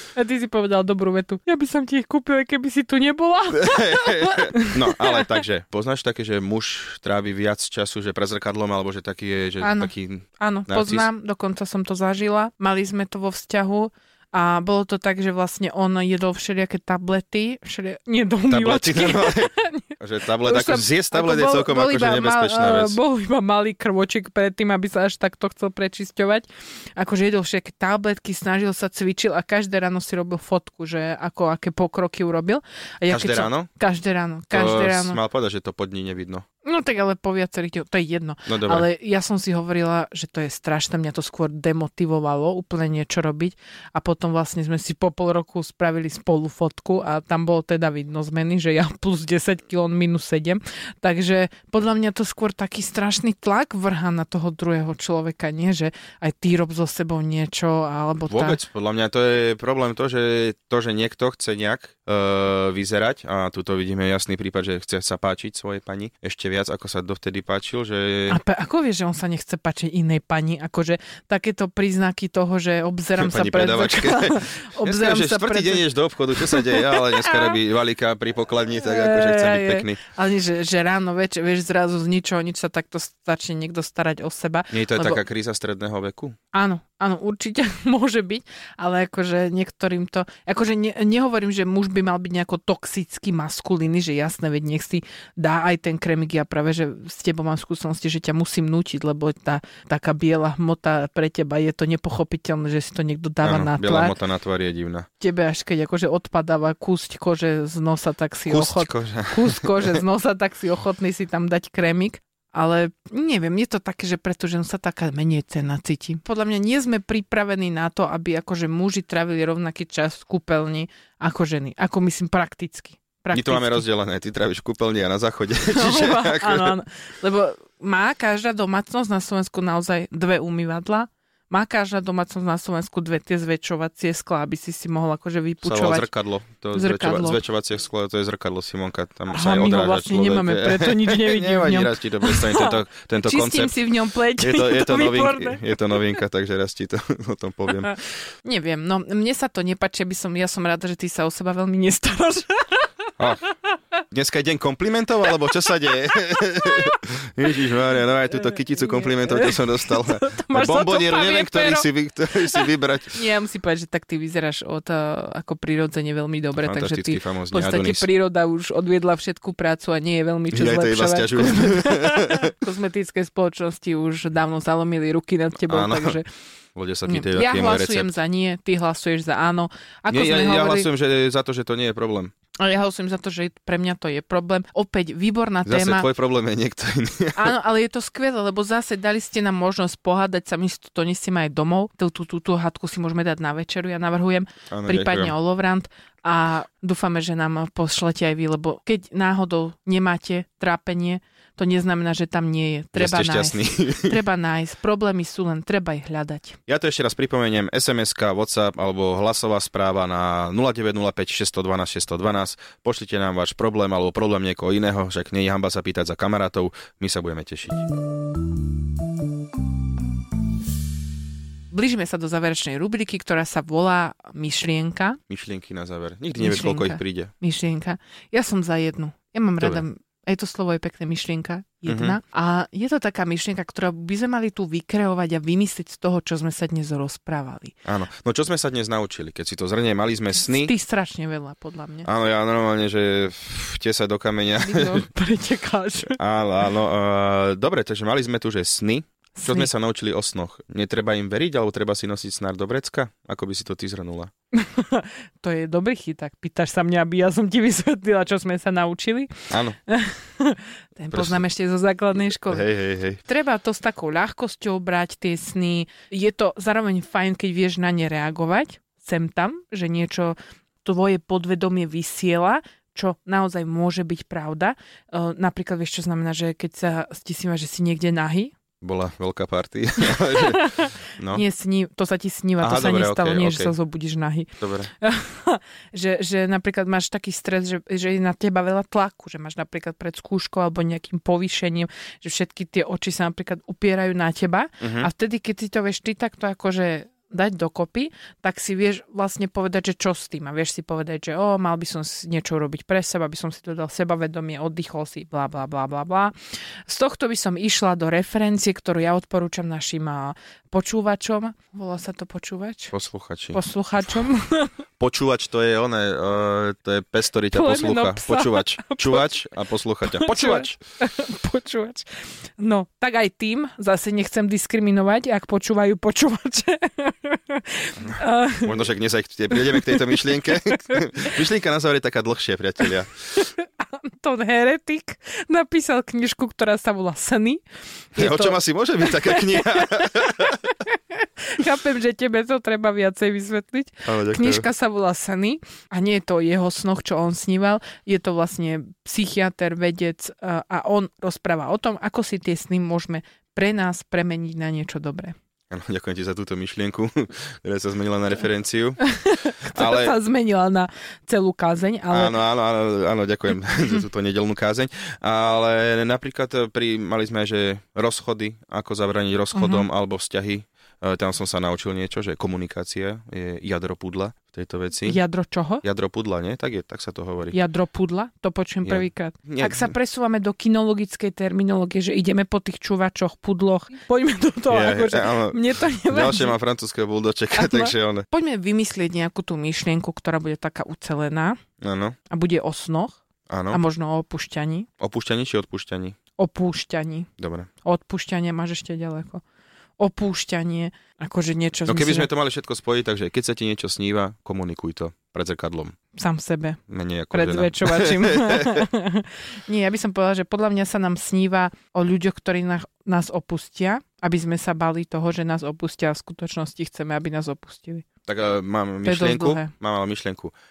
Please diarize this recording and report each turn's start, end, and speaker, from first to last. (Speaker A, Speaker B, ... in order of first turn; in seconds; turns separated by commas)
Speaker A: 0.2-5.3, Speaker B: 3.5-11.1, Speaker A: 9.6-35.2, Speaker B: 18.5-23.0, Speaker B: 33.1-33.7, Speaker B: 34.5-36.5, Speaker A: 36.6-58.6, Speaker B: 38.5-38.9, Speaker B: 58.3-68.4, Speaker A: 68.3-77.6, Speaker B: 73.2-80.0, Speaker A: 78.8-85.2, Speaker B: 84.7-86.4, Speaker A: 86.5-104.2, Speaker B: 103.4-105.1, Speaker A: 105.2-123.8, Speaker B: 108.5-110.0, Speaker B: 123.3-126.8, Speaker A: 125.7-136.1, Speaker B: 135.6-143.7, Speaker A: 136.7-137.4, Speaker A: 139.3-146.2, Speaker B: 144.4-147.9, Speaker A: 147.8-153.1, Speaker B: 154.1-163.2, Speaker A: 156.6-157.0, Speaker A: 158.8-176.3, Speaker B: 166.6-168.1, Speaker B: 170.5-172.5, Speaker B: 175.7-176.2, Speaker B: 176.8-178.2, Speaker A: 177.1-180.9, Speaker B: 180.1-182.3, Speaker A: 182.6-186.1, Speaker B: 185.7-187.5, Speaker A: 187.4-206.6, Speaker B: 194.7-195.3, Speaker B: 202.9-204.2, Speaker B: 206.7-217.9, Speaker A: 221.7-225.2, Speaker B: 225.3-227.3, Speaker A: 226.4-237.8, Speaker B: 231.9-232.2, Speaker B: 237.9-240.7, Speaker A: 240.5-242.1, Speaker B: 242.1-245.1, Speaker A: 244.6-246.2, Speaker B: 246.1-254.3, Speaker A: 249.4-249.7, Speaker A: 254.5-262.6, Speaker B: 259.5-259.8, Speaker B: 261.1-261.4, Speaker B: 262.5-263.2, Speaker A: 263.3-278.5, Speaker B: 278.8-281.4, Speaker A: 280.0-284.5, Speaker B: 282.6-283.7, Speaker B: 284.6-284.9, Speaker A: 285.0-306.3, Speaker B: 294.8-295.1, Speaker A: 306.9-312.9, Speaker B: 312.9-313.6, Speaker A: 313.5-314.7, Speaker B: 315.0-320.8, Speaker A: 317.5-319.3, Speaker A: 320.1-322.1, Speaker A: 322.6-328.9, Speaker B: 328.0-333.1, Speaker A: 329.5-331.1, Speaker A: 333.4-337.6, Speaker A: 338.1-355.4, Speaker B: 338.2-340.7, Speaker B: 344.1-344.7, Speaker B: 355.7-359.0, Speaker A: 359.0-362.4, Speaker B: 359.7-360.1, Speaker B: 362.1-375.2, Speaker A: 369.6-369.9, Speaker A: 375.1-375.8, Speaker B: 375.8-377.6, Speaker A: 377.5-386.6, Speaker B: 378.9-379.9, Speaker B: 384.7-388.3, Speaker A: 387.5-391.6, Speaker B: 391.8-392.2, Speaker A: 392.3-394.9, Speaker B: 393.5-393.8, Speaker B: 395.0-396.2, Speaker A: 396.4-397.3, Speaker B: 397.4-397.7, Speaker A: 397.8-399.4, Speaker A: 400.0-402.3, Speaker B: 401.9-406.0, Speaker A: 406.1-406.8, Speaker B: 406.9-408.9, Speaker A: 407.3-418.1, Speaker B: 418.3-420.5, Speaker A: 419.0-419.7